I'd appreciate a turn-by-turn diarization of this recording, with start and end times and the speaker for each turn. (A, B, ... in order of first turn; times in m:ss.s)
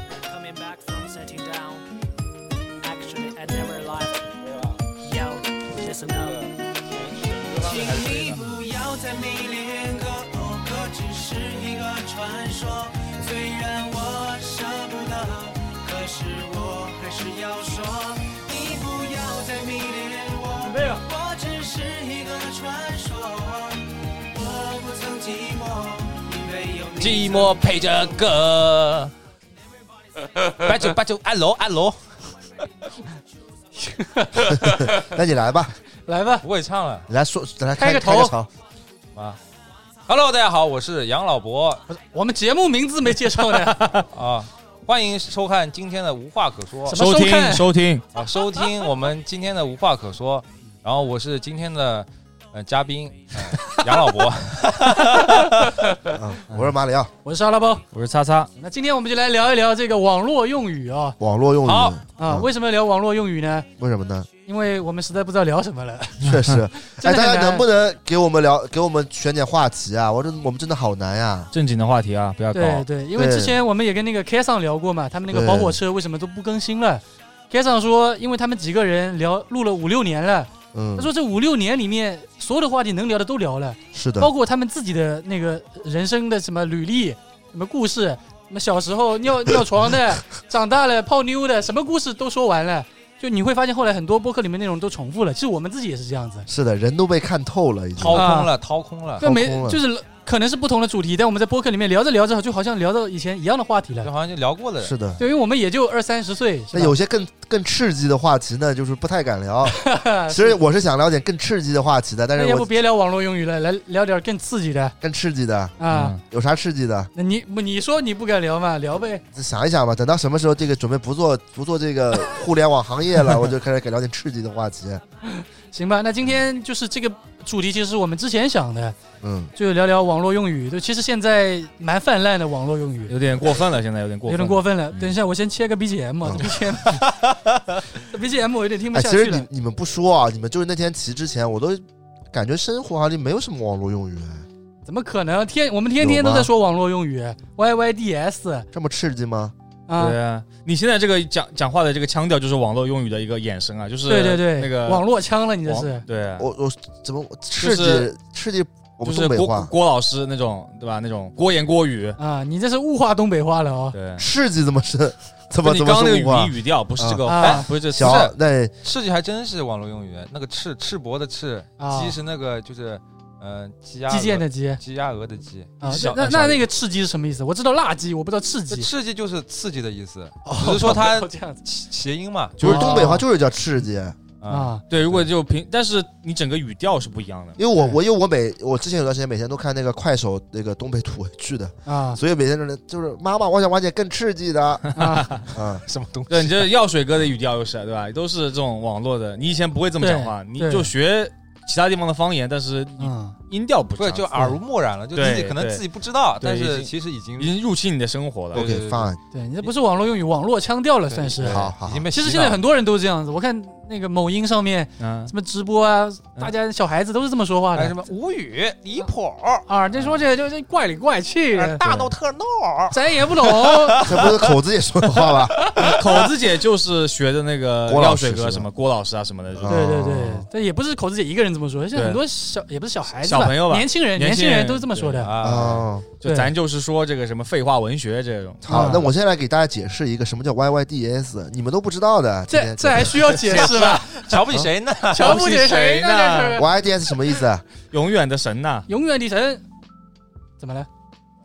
0:00.2-0:01.9 A
0:02.8-0:04.3 A
0:04.9-0:06.5 A
0:05.8-0:08.6 B
0:07.9-0:27.5 A
0:20.6-0:21.0 C
0:26.9-0:29.1 B
0:30.4-0:32.0 B
0:33.8-0:35.0 C
0:34.4-0:35.8 D
0:36.1-0:36.4 C
0:36.4-0:37.1 B
0:37.1-0:38.5 D
0:37.8-0:38.4 C
0:40.1-0:41.8 B
0:41.9-0:44.0 C
0:43.5-0:44.1 E
0:44.1-0:47.0 B
0:46.9-0:47.7 C
0:46.9-0:48.0 E
0:48.1-0:56.0 B
0:56.1-0:57.1 D
0:57.2-0:57.8 C
0:57.9-0:58.5 E
0:58.6-1:01.2 C
1:01.2-1:02.5 D
1:01.6-1:02.0 B
1:02.2-1:03.7 C
1:03.8-1:04.3 D
1:04.5-1:07.7 C
1:06.2-1:11.5 D
1:11.5-1:12.9 E
1:12.5-1:36.5 C
1:13.2-1:13.6 D
1:15.3-1:15.8 D
1:20.7-1:21.1 D
1:23.9-1:24.3 D
1:36.5-1:38.3 D
1:38.0-1:39.2 B
1:38.1-1:38.5 C
1:39.2-1:39.8 D
1:39.2-1:44.1 C
1:44.0-1:45.0 B
1:44.8-1:45.2 D
1:45.2-1:47.0 C
1:46.7-1:52.7 D
1:49.7-1:50.6 C
1:52.4-1:55.0 C
1:55.0-1:57.1 D
1:55.8-1:56.2 C
1:55.9-1:56.2 E
1:57.2-1:59.2 C
1:59.3-2:05.0 D
2:05.3-2:09.0 C
2:09.2-2:09.5 D
2:09.6-2:13.1 C
2:13.1-2:15.2 E
2:14.3-2:17.0 C
2:16.2-2:16.5 D
2:18.0-2:19.5 C
2:18.9-2:24.5 D
2:24.8-2:28.7 C
2:26.0-2:26.5 D
2:28.7-2:29.5 D
2:29.9-2:30.2 C
2:30.0-2:35.0 E
2:34.1-2:36.0 C
2:35.6-2:36.5 E
2:36.4-2:39.7 D
2:37.6-2:38.1 E
2:39.0-2:42.2 E
2:42.2-2:44.0 C
2:43.9-2:44.3 E
2:44.2-2:47.2 D
2:45.6-2:48.2 E
2:47.3-2:47.7 C
2:47.4-2:55.8 B
2:47.9-2:48.7 D
2:51.8-2:52.2 C
2:54.1-2:54.8 C
2:55.8-2:58.9 C
2:55.8-2:56.6 E
2:58.7-3:02.6 B
3:00.4-3:01.6 C
3:02.6-3:04.2 D
3:02.6-3:03.2 C
3:04.4-3:04.8 B
3:04.5-3:04.8 C
3:04.9-3:07.6 E
3:07.6-3:14.9 D
3:11.9-3:12.2 C
3:14.9-3:15.4 E
3:15.0-3:15.3 C
3:15.5-3:15.8 D
3:15.9-3:16.7 B
3:16.3-3:24.4 E
3:20.0-3:20.9 C
3:23.0-3:23.4 C
3:24.0-3:27.6 B
3:25.1-3:25.8 E
3:26.4-3:28.8 E
3:28.5-3:29.1 B
3:28.5-3:29.2 D
3:29.3-3:37.9 C
3:31.1-3:32.6 B
3:31.4-3:32.1 D
3:35.0-3:35.3 E
3:37.8-3:39.7 B
3:39.7-3:42.1 C
3:41.6-3:44.5 B
3:42.9-3:44.1 C
3:44.0-3:45.6 D
3:45.2-3:46.3 B
3:45.8-3:49.8 E
3:47.9-3:48.7 D
3:49.5-3:50.5 D
3:49.7-3:55.3 C
3:51.9-3:52.2 E
3:53.2-3:55.3 E
3:55.2-3:55.9 B
3:55.4-3:56.1 D
3:56.2-3:58.9 E
3:56.2-3:56.5 C
3:58.6-4:03.4 D
3:58.7-3:59.1 C
4:02.5-4:04.1 C
4:03.4-4:04.0 E
4:03.5-4:05.7 B
4:05.1-4:06.7 C
4:05.2-4:06.6 E
4:06.6-4:07.6 D
4:07.9-4:08.9 E
4:08.9-4:09.6 C
4:10.6-4:10.9 C